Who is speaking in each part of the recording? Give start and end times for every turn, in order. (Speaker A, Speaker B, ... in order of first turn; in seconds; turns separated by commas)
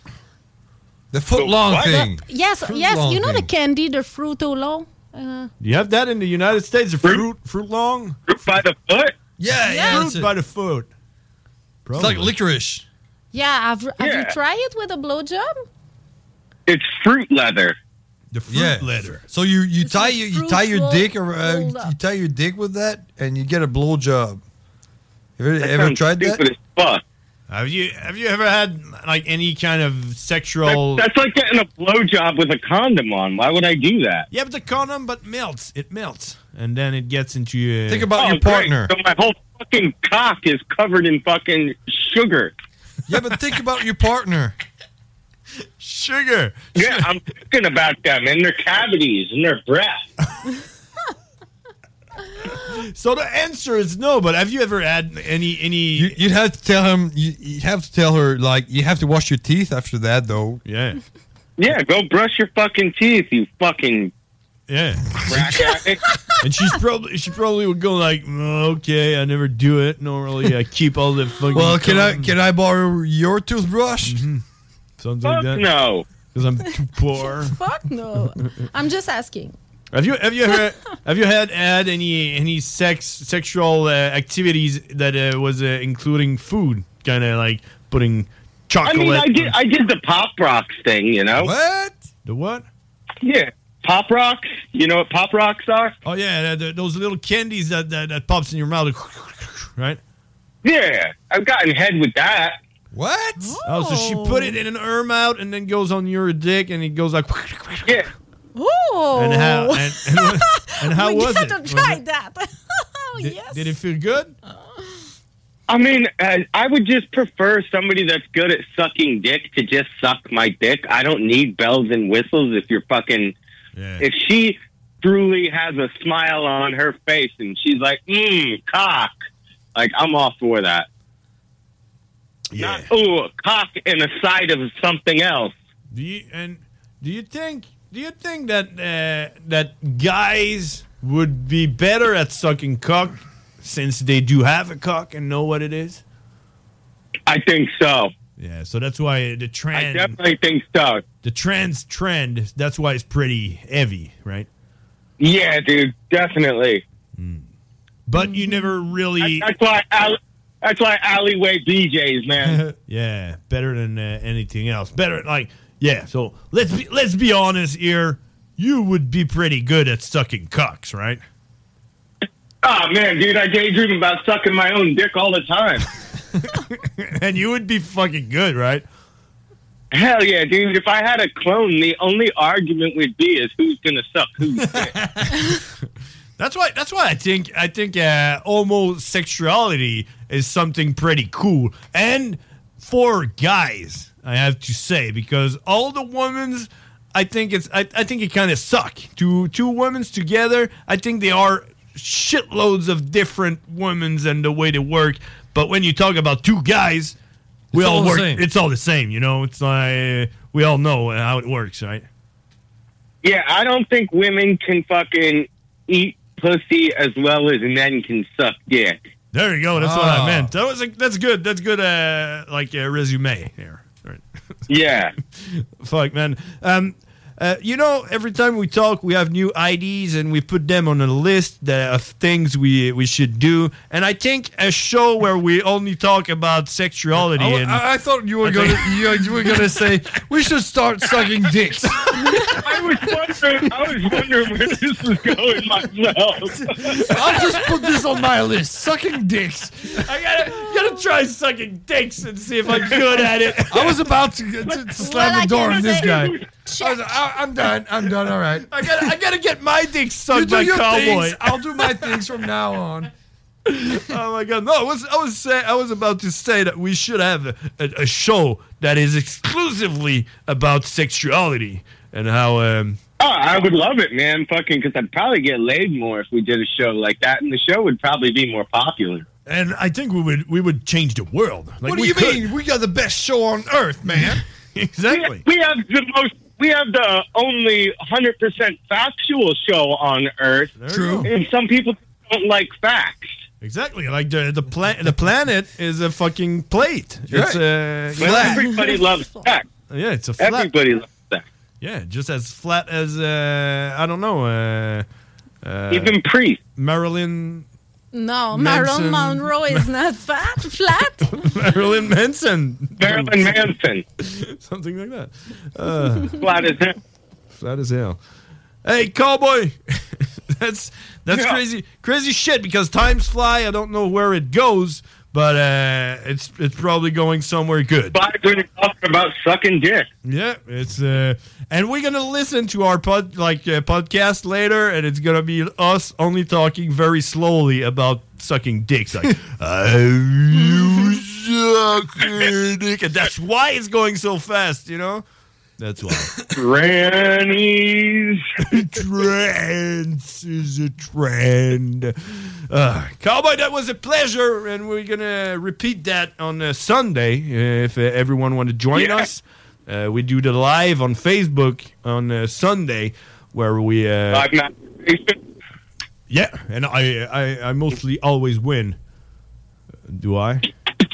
Speaker A: 1.1-3.5, Speaker B: 1.3-2.0, Speaker C: 1.9-5.5, Speaker D: 5.6-8.2, Speaker B: 8.3-9.2, Speaker A: 9.4-10.3, Speaker C: 9.6-10.1, Speaker D: 9.8-10.9, Speaker D: 11.8-12.3, Speaker A: 11.9-12.8, Speaker C: 13.3-15.6, Speaker B: 14.0-14.3, Speaker B: 16.7-17.8, Speaker D: 18.3-19.2, Speaker A: 18.5-24.4, Speaker C: 19.8-21.9, Speaker A: 25.4-26.4, Speaker B: 25.6-27.0, Speaker D: 27.5-31.1, Speaker B: 30.6-34.3, Speaker D: 34.3-38.1, Speaker A: 37.9-38.9, Speaker B: 38.1-42.5, Speaker A: 43.1-44.5, Speaker D: 45.8-47.1, Speaker B: 46.7-50.0, Speaker D: 52.6-56.2, Speaker A: 56.0-60.6, Speaker D: 60.6-61.0, Speaker B: 61.6-64.1, Speaker D: 64.7-65.6, Speaker B: 65.3-66.0, Speaker D: 66.4-72.3, Speaker A: 71.5-74.2, Speaker D: 74.0-74.4, Speaker D: 75.0-75.7, Speaker B: 75.2-76.0, Speaker D: 76.3-77.6, Speaker C: 77.1-79.5, Speaker D: 79.9-89.5, Speaker B: 88.8-91.5, Speaker A: 91.3-91.9, Speaker D: 92.2-92.7, Speaker B: 93.2-95.9, Speaker D: 96.0-100.0, Speaker B: 100.6-102.6, Speaker A: 102.9-103.6, Speaker C: 103.4-104.5, Speaker D: 103.6-107.9, Speaker C: 108.5-113.8, Speaker D: 109.1-112.0, Speaker D: 113.2-114.3, Speaker C: 114.5-115.0, Speaker B: 115.7-123.3, Speaker D: 123.8-124.0, Speaker B: 124.0-129.1, Speaker B: 129.7-130.9, Speaker D: 132.5-132.9, Speaker B: 132.6-135.5, Speaker D: 135.9-146.0, Speaker B: 147.3-148.1, Speaker D: 148.4-150.2, Speaker B: 149.7-151.0, Speaker D: 151.2-154.5, Speaker B: 155.2-156.8, Speaker D: 157.2-157.4, Speaker D: 158.1-159.5, Speaker C: 158.2-158.7, Speaker B: 159.2-162.6, Speaker A: 162.4-162.7, Speaker D: 162.9-171.2, Speaker B: 172.6-175.8, Speaker D: 176.4-178.8, Speaker B: 179.9-185.0, Speaker D: 184.6-185.6, Speaker D: 186.4-207.2, Speaker A: 207.7-208.4, Speaker D: 207.7-212.1, Speaker B: 213.2-219.0, Speaker D: 219.3-224.2, Speaker A: 219.8-220.5, Speaker B: 224.7-225.1, Speaker D: 225.4-237.8, Speaker A: 237.1-242.5, Speaker D: 238.4-239.6, Speaker D: 242.1-242.6, Speaker B: 242.6-247.0, Speaker A: 246.7-250.0, Speaker D: 247.3-247.7, Speaker D: 249.9-254.0, Speaker A: 253.7-259.1, Speaker C: 254.9-257.0, Speaker B: 256.0-256.4, Speaker D: 258.7-262.1, Speaker A: 260.3-263.1, Speaker D: 263.7-273.0, Speaker B: 273.2-279.2, Speaker D: 279.5-282.4, Speaker A: 281.8-284.4, Speaker D: 284.7-285.4, Speaker B: 285.1-293.4, Speaker D: 290.8-291.3, Speaker A: 290.9-291.3, Speaker D: 293.6-298.6, Speaker A: 297.3-297.6, Speaker A: 298.1-298.8, Speaker B: 298.2-299.7, Speaker C: 298.6-299.4, Speaker D: 299.9-300.7, Speaker B: 300.4-301.4, Speaker D: 301.8-305.1, Speaker D: 305.6-306.1, Speaker B: 305.9-306.6, Speaker D: 306.8-307.7, Speaker C: 308.1-311.3, Speaker A: 308.6-309.2, Speaker D: 308.6-309.8, Speaker D: 311.3-313.7, Speaker B: 313.0-314.0, Speaker D: 314.2-316.3, Speaker B: 316.4-316.9, Speaker D: 317.6-318.2, Speaker D: 318.8-328.2, Speaker B: 321.3-321.6, Speaker B: 328.1-330.1, Speaker D: 330.2-345.2, Speaker D: 345.8-346.3, Speaker B: 346.5-348.4, Speaker D: 348.6-364.5, Speaker B: 358.9-359.3, Speaker B: 364.3-365.4, Speaker D: 366.3-369.0, Speaker D: 370.1-370.6